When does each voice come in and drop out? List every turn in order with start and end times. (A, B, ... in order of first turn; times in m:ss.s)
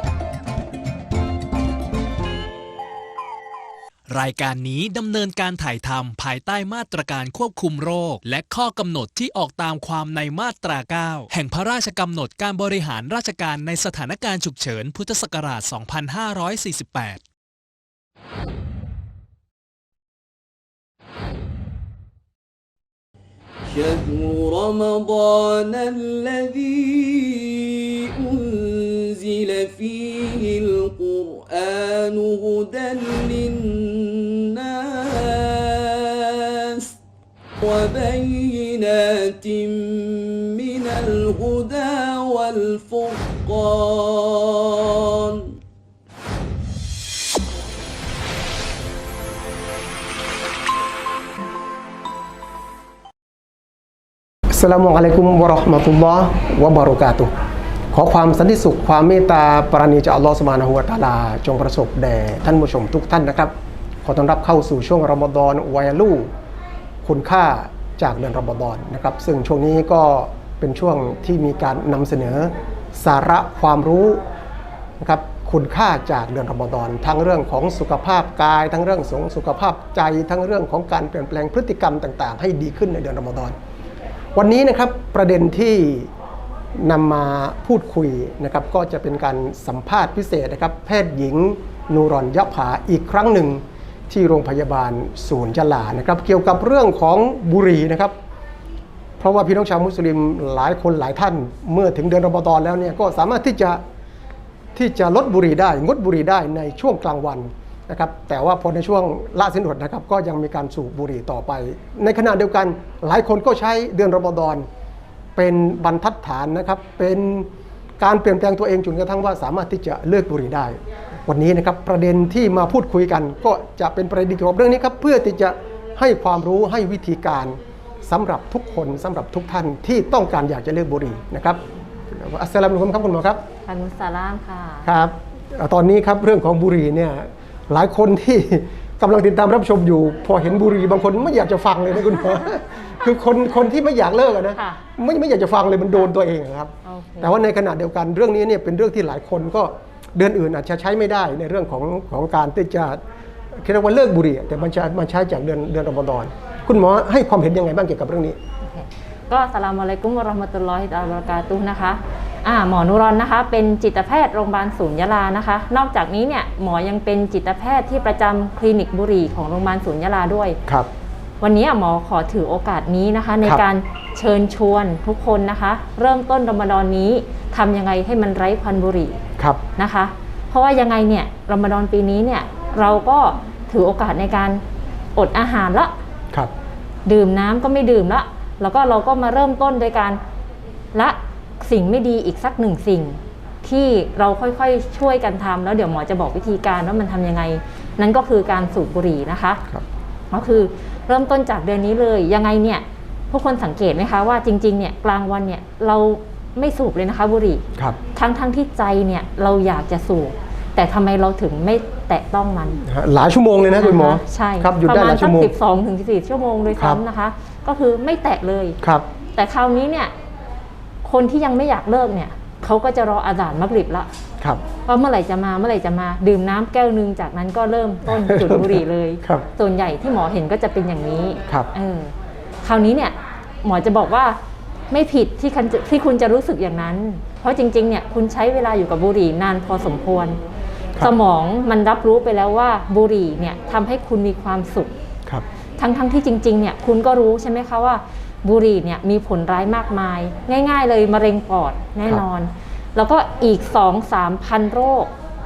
0:04.1-0:17.2 A
0:23.7-0:37.0 B
0:37.6-0:45.6 B
0:54.5-0:57.3 C
0:57.9-1:06.3 C
1:07.0-1:14.2 C
1:15.0-1:23.6 C
1:24.4-1:26.1 C
1:26.8-1:38.1 C
1:39.2-1:43.8 C
1:44.7-1:54.6 C
1:55.4-1:57.5 C
1:58.0-2:13.4 C
2:13.6-2:14.9 D
2:14.8-2:33.0 C
2:24.5-2:24.8 D
2:26.8-2:27.4 D
2:33.5-2:38.4 C
2:38.6-2:50.6 D
2:51.4-2:59.2 D
2:59.8-3:04.6 D
3:05.1-3:06.0 D
3:07.0-3:10.2 D
3:10.9-3:19.6 D
3:20.3-3:27.6 D
3:28.1-3:32.8 D
3:32.8-3:35.5 C
3:33.8-3:38.8 D
3:36.7-3:37.0 C
3:38.8-3:39.1 C
3:39.3-3:40.1 D
3:41.0-3:44.1 D
3:44.8-3:54.4 D
3:48.0-3:49.4 C
3:54.9-4:00.4 D
4:01.0-4:04.9 D
4:05.8-4:15.1 D